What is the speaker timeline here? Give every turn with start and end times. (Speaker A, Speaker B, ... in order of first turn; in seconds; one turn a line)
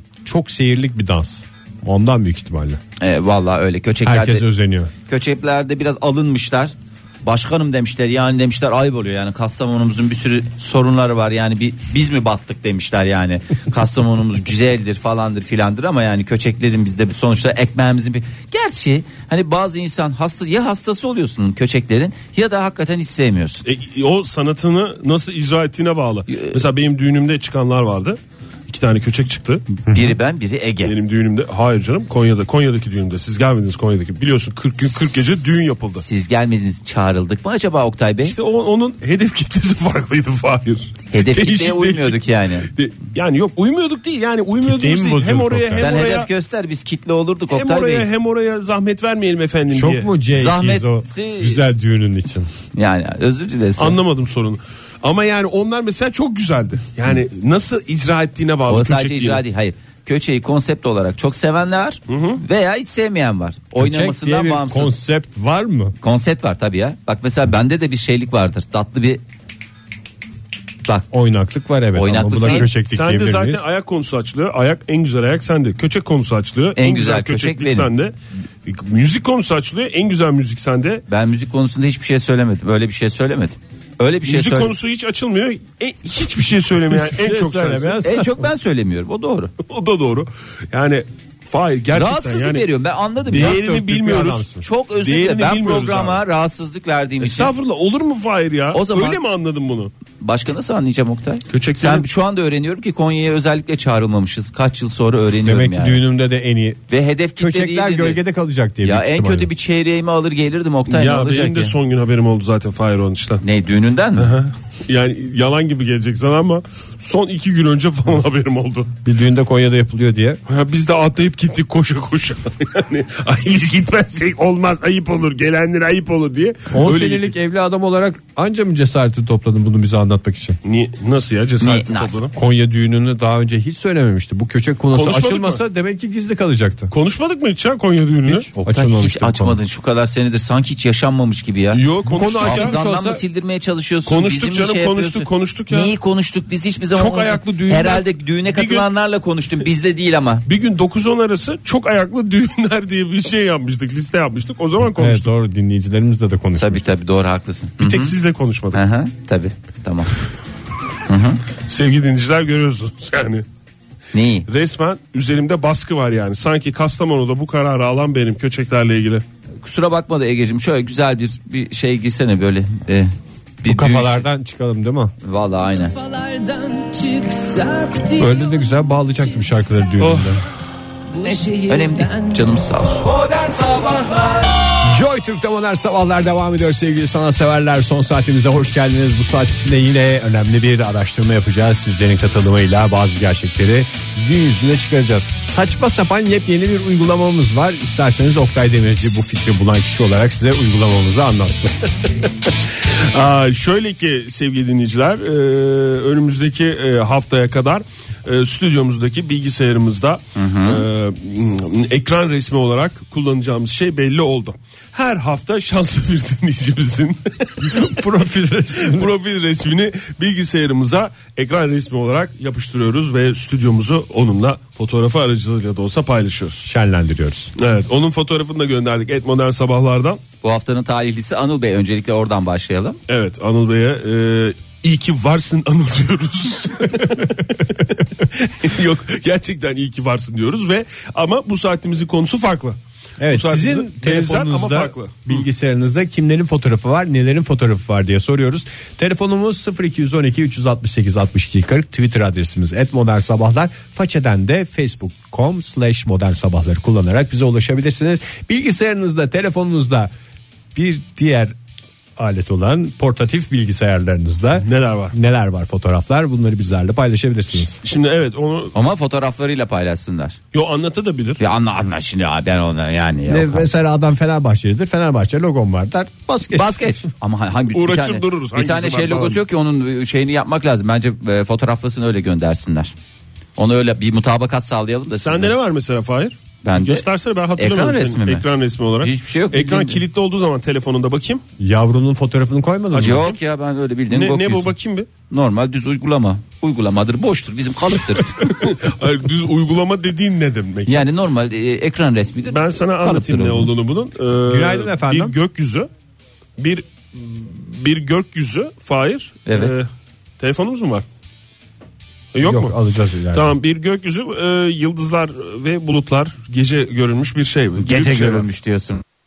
Speaker A: 0.2-2.8
Speaker B: 3.0-4.5
Speaker A: 4.0-4.9
Speaker B: 5.1-23.6
Speaker C: 23.6-29.6
Speaker B: 26.3-26.6
Speaker B: 29.9-30.9
Speaker C: 30.8-36.0
Speaker B: 36.0-38.4
Speaker C: 38.2-46.3
Speaker B: 41.1-42.7
Speaker A: 44.6-46.1
Speaker B: 45.7-48.1
Speaker C: 47.5-50.1
Speaker A: 49.7-52.5
Speaker B: 50.3-51.8
Speaker B: 52.7-54.0
Speaker C: 53.8-59.4
Speaker B: 58.7-65.0
Speaker C: 62.1-62.4
Speaker A: 63.8-66.0
Speaker B: 66.0-69.2
Speaker A: 71.1-73.6
Speaker B: 72.0-72.7
Speaker C: 72.4-78.1
Speaker B: 76.8-77.9
Speaker C: 78.7-81.0
Speaker B: 81.1-84.7
Speaker C: 84.3-88.0
Speaker A: 86.9-88.5
Speaker B: 88.0-89.5
Speaker C: 89.7-92.7
Speaker B: 91.9-93.6
Speaker A: 93.3-94.7
Speaker C: 93.3-94.5
Speaker B: 94.6-97.5
Speaker C: 95.0-96.2
Speaker C: 97.2-99.9
Speaker B: 98.7-99.2
Speaker B: 100.2-106.0
Speaker C: 101.5-102.1
Speaker A: 105.5-106.8
Speaker B: 106.9-108.2
Speaker A: 107.4-109.5
Speaker B: 108.8-111.8
Speaker C: 110.9-113.4
Speaker B: 113.4-114.3
Speaker C: 114.2-118.9
Speaker A: 119.0-120.4
Speaker C: 120.5-127.3
Speaker A: 126.7-130.6
Speaker C: 130.7-132.3
Speaker B: 131.6-132.3
Speaker A: 132.3-136.9
Speaker C: 134.9-135.6
Speaker C: 136.9-138.5
Speaker A: 138.3-139.6
Speaker B: 138.6-141.8
Speaker C: 141.7-142.8
Speaker A: 142.1-143.2
Speaker B: 142.4-150.4
Speaker C: 144.1-145.9
Speaker C: 146.9-148.9
Speaker C: 150.5-155.3
Speaker A: 154.8-156.9
Speaker B: 156.6-158.1
Speaker C: 157.8-158.8
Speaker B: 158.7-160.1
Speaker B: 161.1-161.4
Speaker C: 161.7-163.4
Speaker B: 164.1-164.5
Speaker C: 164.5-169.2
Speaker B: 169.6-174.2
Speaker A: 173.7-175.1
Speaker B: 175.2-176.0
Speaker A: 178.2-180.4
Speaker C: 180.0-180.4
Speaker B: 181.2-183.4
Speaker A: 184.8-201.7
Speaker C: 203.1-217.9
Speaker B: 210.4-210.8
Speaker A: 217.6-219.1
Speaker C: 218.8-226.7
Speaker A: 226.6-227.5
Speaker C: 227.6-230.2
Speaker B: 230.4-233.0
Speaker C: 233.1-245.4
Speaker A: 243.2-260.1
Speaker A: 260.7-261.6
Speaker A: 262.2-267.8
Speaker C: 264.6-265.1
Speaker C: 267.8-268.8
Speaker B: 268.7-270.4
Speaker C: 270.5-271.4
Speaker B: 271.4-273.7
Speaker A: 273.3-277.0
Speaker B: 276.5-282.9
Speaker C: 277.7-279.4
Speaker B: 283.6-285.5
Speaker C: 285.1-291.4
Speaker B: 286.6-288.4
Speaker B: 289.0-290.0
Speaker A: 291.6-293.3
Speaker B: 292.9-294.7
Speaker C: 294.1-295.1
Speaker B: 295.3-298.5
Speaker C: 298.4-301.1
Speaker B: 300.9-303.7
Speaker C: 302.5-305.9
Speaker A: 304.4-305.4
Speaker C: 306.6-309.9
Speaker B: 309.5-309.7
Speaker C: 310.4-311.1
Speaker C: 312.3-312.8
Speaker A: 312.4-313.5
Speaker C: 313.3-318.5
Speaker B: 317.8-319.0